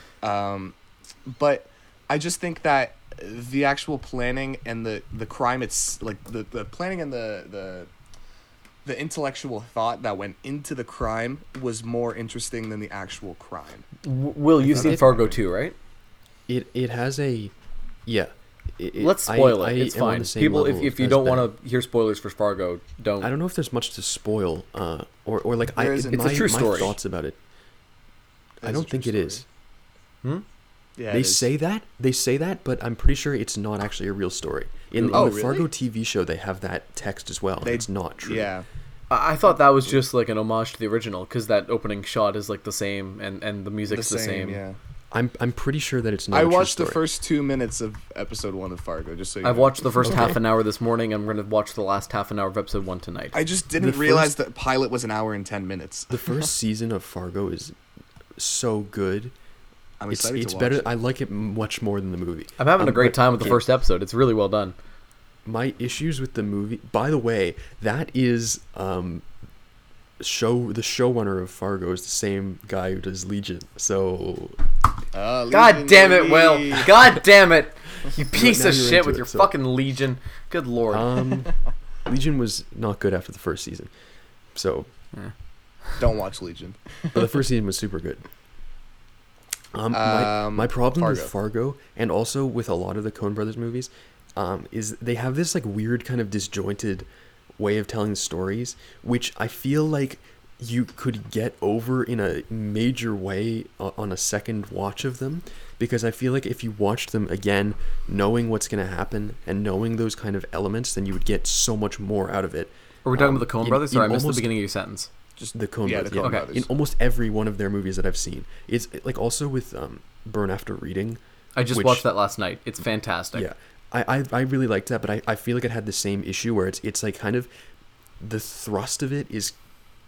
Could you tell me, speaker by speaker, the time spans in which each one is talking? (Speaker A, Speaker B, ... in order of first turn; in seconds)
Speaker A: 0.2-7.9, 8.8-13.9, 25.8-26.9, 28.6-29.4, 31.0-31.5, 35.1-35.7, 37.6-38.7, 43.9-44.8, 46.3-50.3, 53.3-56.4, 60.0-60.9, 75.1-76.9, 86.0-87.2, 89.9-91.3, 115.4-116.7
Speaker B: 14.0-15.8, 19.0-23.3, 26.1-26.9, 35.0-35.3, 39.1-44.6, 49.4-53.4, 62.6-64.8, 75.5-81.4, 113.0-115.1, 116.2-116.5, 121.6-123.5
Speaker C: 14.6-15.3, 16.5-17.5, 18.1-21.5, 23.2-27.4, 28.6-29.4, 31.1-38.5, 45.1-47.0, 50.0-50.4, 53.8-54.4, 56.1-57.8, 58.4-59.3, 60.1-63.6, 65.5-69.2, 70.2-74.6, 78.3-79.5, 80.9-81.5, 82.0-83.9, 84.5-84.9, 87.1-88.2, 89.7-114.5, 115.5-122.1, 123.3-127.5, 128.2-129.6